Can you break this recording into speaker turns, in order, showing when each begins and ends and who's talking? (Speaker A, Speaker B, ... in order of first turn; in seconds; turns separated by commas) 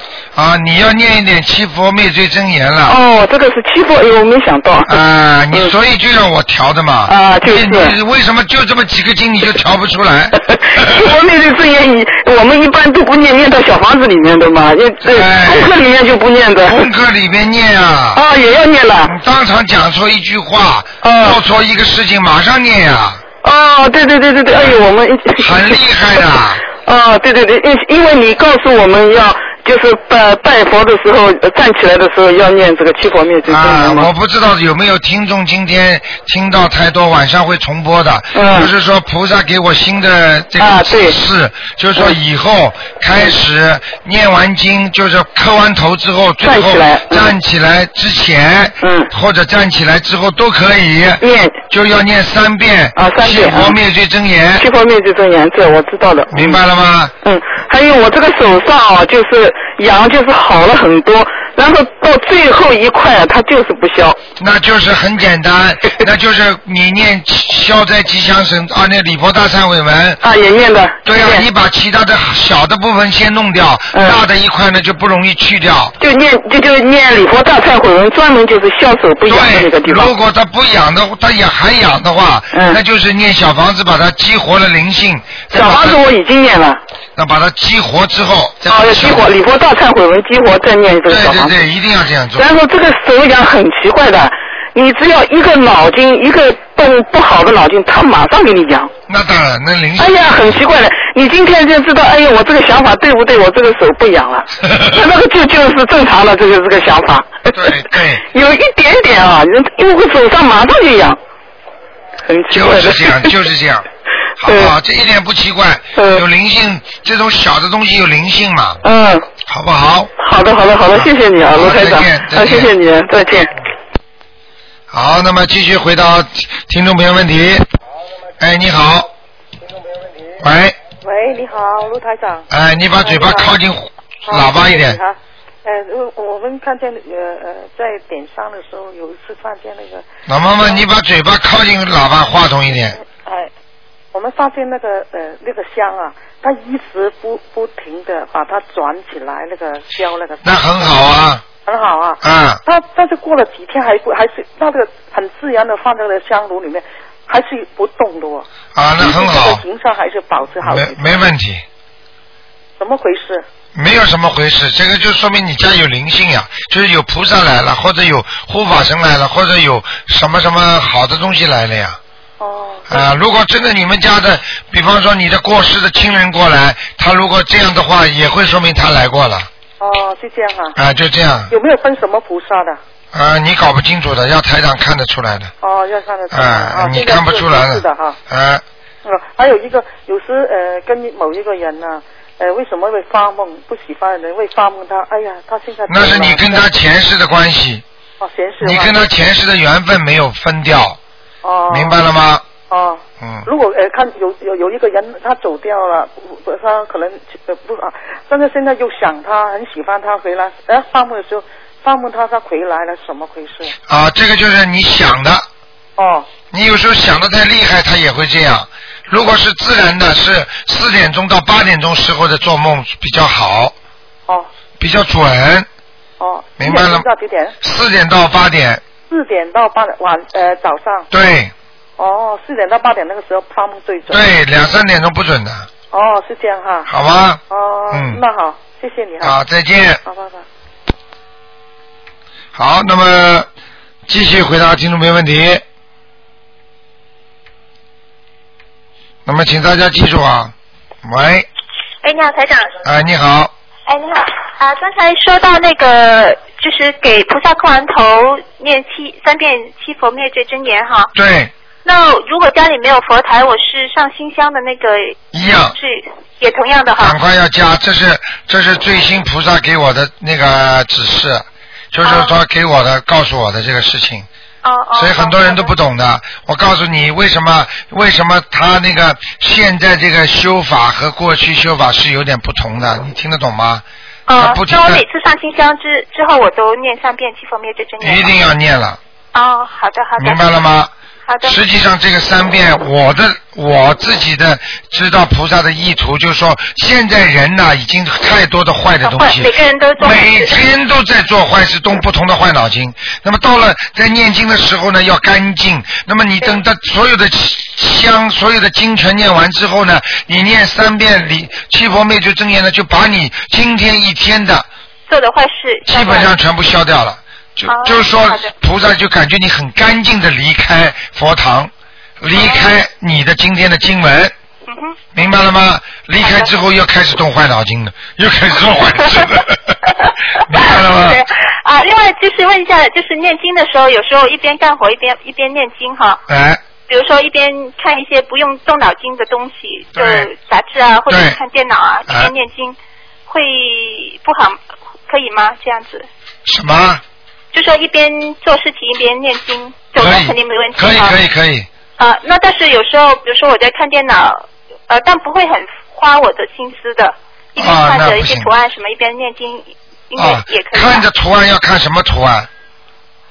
Speaker A: 0.3-3.0, Speaker B: 2.9-5.0, Speaker A: 4.9-11.1, Speaker B: 7.1-8.0, Speaker B: 10.5-16.9, Speaker A: 15.1-15.7, Speaker A: 16.6-18.2, Speaker B: 18.1-19.1, Speaker A: 19.1-23.2, Speaker B: 21.0-21.4, Speaker B: 23.4-25.7, Speaker A: 25.4-26.6, Speaker B: 26.8-34.1, Speaker A: 33.5-54.6, Speaker B: 38.3-38.7, Speaker B: 40.6-41.2, Speaker B: 46.4-47.3, Speaker B: 48.8-49.1, Speaker B: 51.2-51.6, Speaker B: 53.0-53.8, Speaker B: 54.6-56.6, Speaker A: 56.3-57.1, Speaker B: 57.2-64.2, Speaker A: 64.4-70.2, Speaker B: 70.2-71.5, Speaker A: 71.0-75.9, Speaker B: 73.9-74.2, Speaker B: 76.0-80.1, Speaker A: 79.3-86.0, Speaker B: 82.5-82.8, Speaker B: 85.5-86.8, Speaker A: 87.2-89.3, Speaker B: 88.7-91.5, Speaker A: 91.1-92.5, Speaker B: 92.4-98.9, Speaker A: 99.1-100.6, Speaker B: 100.0-107.5, Speaker A: 107.5-108.2, Speaker B: 108.3-111.2, Speaker B: 112.3-113.3, Speaker A: 112.5-113.8, Speaker A: 114.4-118.8, Speaker B: 114.4-114.7, Speaker B: 115.9-116.2, Speaker B: 118.8-119.3, Speaker A: 119.5-120.1, Speaker B: 120.2-123.6, Speaker A: 120.9-122.7, Speaker A: 124.9-127.6, Speaker A: 128.4-129.1, Speaker A: 130.4-130.8, Speaker C: 131.0-132.5, Speaker A: 132.5-135.0, Speaker C: 133.0-133.6, Speaker C: 134.3-140.9, Speaker A: 140.3-143.0, Speaker C: 143.0-143.5, Speaker C: 144.1-150.8, Speaker A: 150.4-151.4, Speaker C: 151.6-161.3, Speaker A: 152.2-152.6, Speaker A: 158.7-159.6, Speaker A: 160.6-161.6, Speaker C: 162.8-163.4, Speaker A: 163.7-172.0, Speaker C: 172.4-173.1, Speaker A: 172.9-179.5, Speaker C: 179.8-180.8, Speaker A: 180.8-181.5, Speaker C: 181.5-182.8, Speaker A: 183.1-185.5, Speaker C: 185.6-188.2, Speaker A: 186.3-188.6, Speaker C: 189.0-196.7, Speaker A: 195.9-197.8, Speaker C: 198.2-199.0, Speaker A: 198.6-201.0, Speaker C: 201.4-202.1, Speaker A: 201.7-202.4, Speaker C: 202.7-213.7, Speaker A: 203.2-203.5, Speaker A: 213.9-215.4, Speaker C: 216.0-216.3, Speaker A: 216.5-223.7, Speaker A: 224.8-225.7, Speaker C: 226.2-227.6, Speaker A: 226.6-227.1, Speaker A: 227.6-228.8, Speaker C: 229.1-231.1, Speaker A: 231.1-231.5, Speaker C: 232.0-234.3, Speaker A: 234.1-235.7, Speaker C: 235.9-236.9, Speaker A: 236.9-238.2, Speaker C: 237.5-239.4, Speaker A: 239.2-240.0, Speaker C: 240.1-240.4, Speaker A: 242.6-243.5, Speaker A: 244.1-245.6, Speaker A: 249.3-250.5, Speaker A: 251.0-251.5, Speaker D: 252.0-252.7, Speaker A: 252.8-253.5, Speaker D: 253.9-261.1, Speaker A: 261.1-261.5, Speaker D: 261.9-267.2, Speaker A: 265.3-265.8, Speaker A: 267.0-274.3, Speaker D: 272.0-272.4, Speaker D: 274.6-275.7, Speaker A: 274.9-283.8, Speaker D: 284.3-288.4, Speaker A: 284.4-285.0, Speaker A: 288.0-289.0, Speaker D: 289.3-290.4, Speaker A: 290.2-290.9, Speaker D: 291.3-291.6, Speaker A: 291.4-314.7, Speaker D: 299.0-300.6, Speaker D: 315.1-316.3, Speaker A: 315.9-324.3, Speaker D: 317.6-318.5, Speaker D: 322.3-322.8, Speaker D: 324.7-325.0, Speaker A: 325.1-329.8, Speaker D: 326.2-326.6, Speaker D: 330.1-336.2, Speaker A: 330.4-331.2, Speaker A: 336.3-336.6, Speaker D: 336.9-346.1, Speaker A: 339.9-340.3, Speaker A: 341.1-341.4, Speaker A: 346.4-347.0, Speaker D: 347.5-351.2, Speaker A: 350.0-351.7, Speaker D: 352.0-361.1, Speaker A: 357.6-358.5, Speaker A: 360.2-362.5